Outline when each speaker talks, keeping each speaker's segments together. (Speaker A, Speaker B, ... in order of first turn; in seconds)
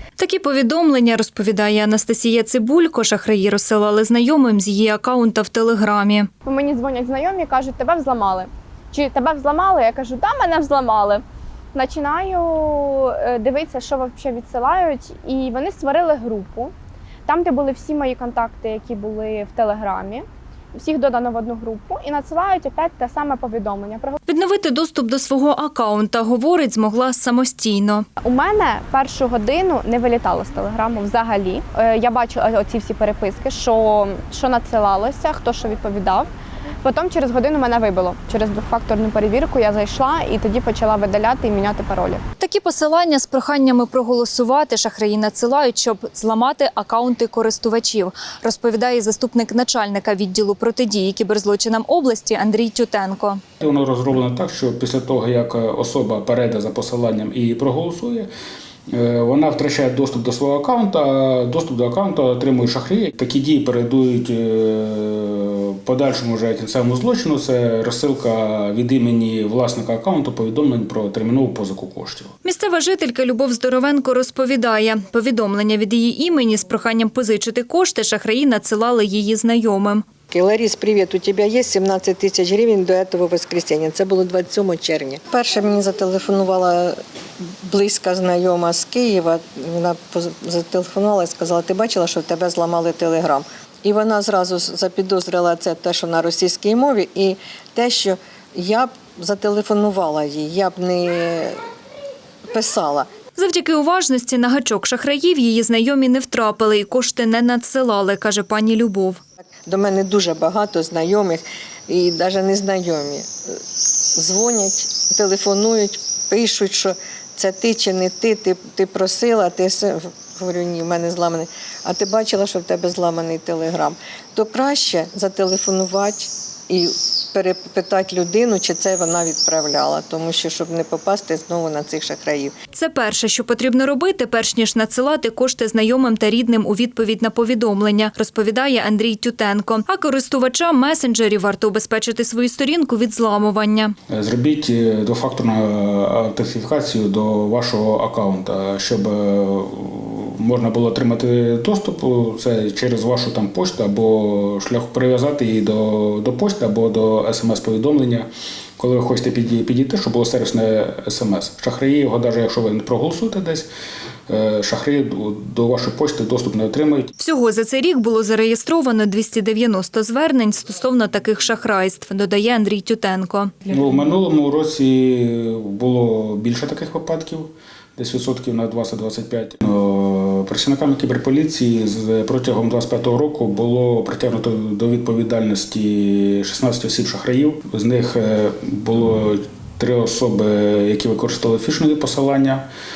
Speaker A: 0.2-6.3, 24.3-28.0, 42.4-53.4, 72.4-80.0, 103.3-109.2, 132.7-143.9, 167.2-173.6
Speaker B: 6.4-11.2, 11.7-16.7, 17.2-24.1, 28.2-36.3, 36.8-42.2
Speaker C: 53.6-58.3, 58.9-72.3, 144.1-163.7, 164.3-167.1, 173.7-192.7
Speaker D: 80.3-87.0, 87.6-101.6, 102.5-103.1, 109.7-113.5, 114.1-132.5